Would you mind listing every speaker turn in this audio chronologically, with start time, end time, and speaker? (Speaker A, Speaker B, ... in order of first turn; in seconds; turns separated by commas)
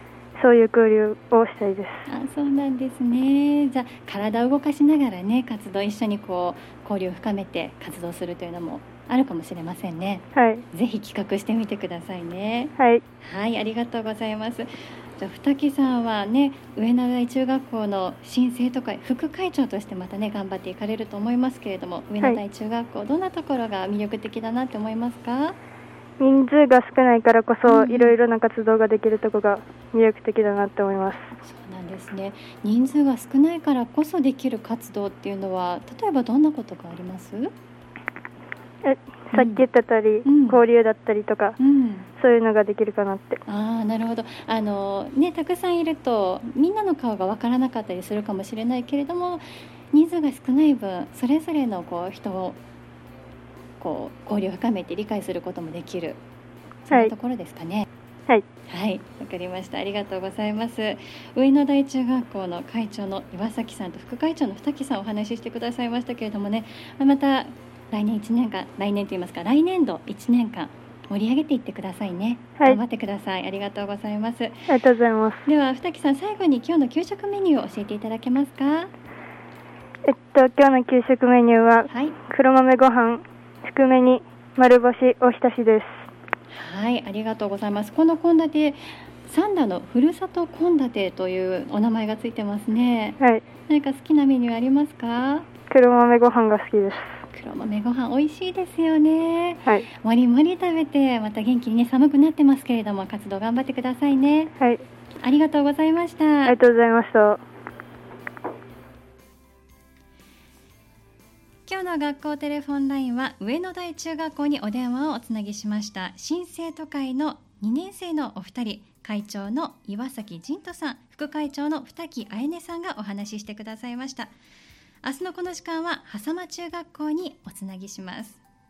Speaker A: 0.4-2.1, Speaker B: 2.1-25.6, Speaker A: 10.3-10.6, Speaker A: 26.2-31.3, Speaker B: 27.7-28.2, Speaker B: 31.4-37.5, Speaker A: 38.8-41.6, Speaker B: 39.3-39.6, Speaker B: 40.2-40.6, Speaker B: 41.6-42.1, Speaker A: 42.2-43.4, Speaker B: 43.5-52.6, Speaker B: 53.8-56.2, Speaker B: 56.9-57.9, Speaker B: 58.7-74.6, Speaker A: 74.7-75.4, Speaker B: 75.5-78.9, Speaker A: 80.1-85.9, Speaker B: 81.9-82.2, Speaker B: 86.5-95.5, Speaker A: 95.7-97.2, Speaker B: 97.3-104.5, Speaker B: 105.2-106.6, Speaker A: 106.5-107.4, Speaker B: 111.7-124.3, Speaker B: 125.0-128.4